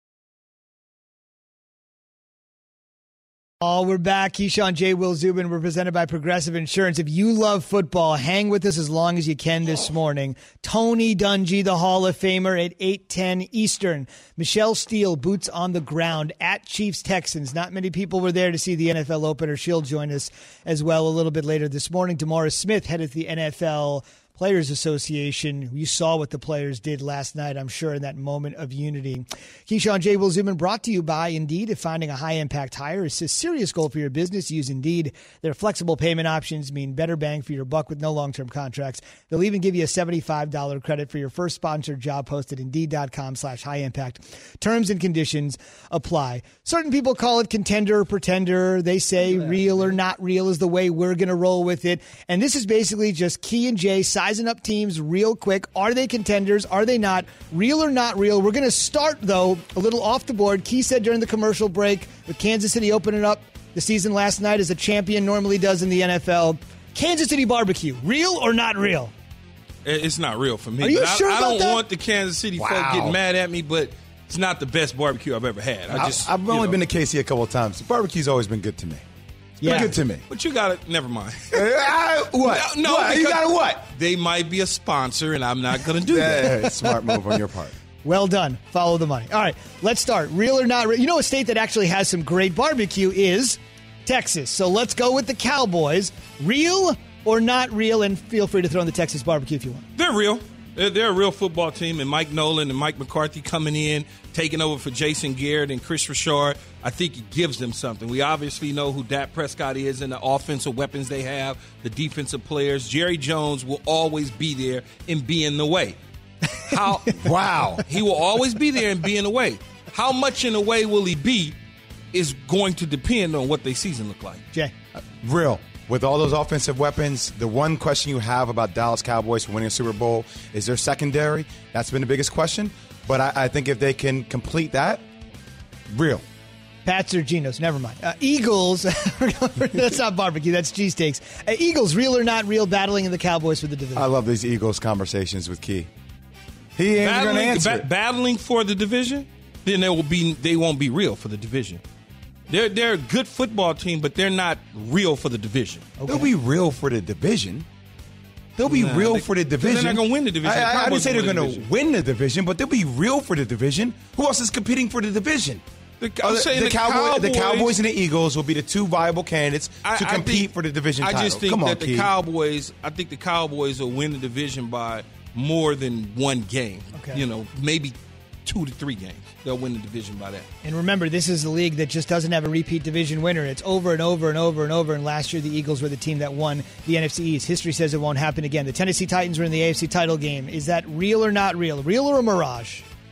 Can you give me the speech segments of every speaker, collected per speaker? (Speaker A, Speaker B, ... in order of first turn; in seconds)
Speaker A: 3.6-69.1, 70.8-71.8, 79.6-80.0, 86.7-87.2, 88.0-99.8, 136.8-144.1, 156.0-156.3, 177.0-177.2, 180.6-192.8
Speaker B: 69.8-76.8, 79.7-86.5, 100.0-116.0, 116.6-117.2, 117.8-121.6, 122.1-124.4, 147.0-151.8, 152.5-155.9, 158.7-161.7, 166.0-167.8, 169.8-180.5
Speaker C: 72.6-73.2, 75.9-79.0, 79.6-80.2, 81.5-83.8, 86.1-87.7, 117.2-117.8, 125.0-135.0, 135.9-136.2, 143.9-145.9, 146.8-147.9, 156.1-157.7, 158.6-165.6, 166.2-172.1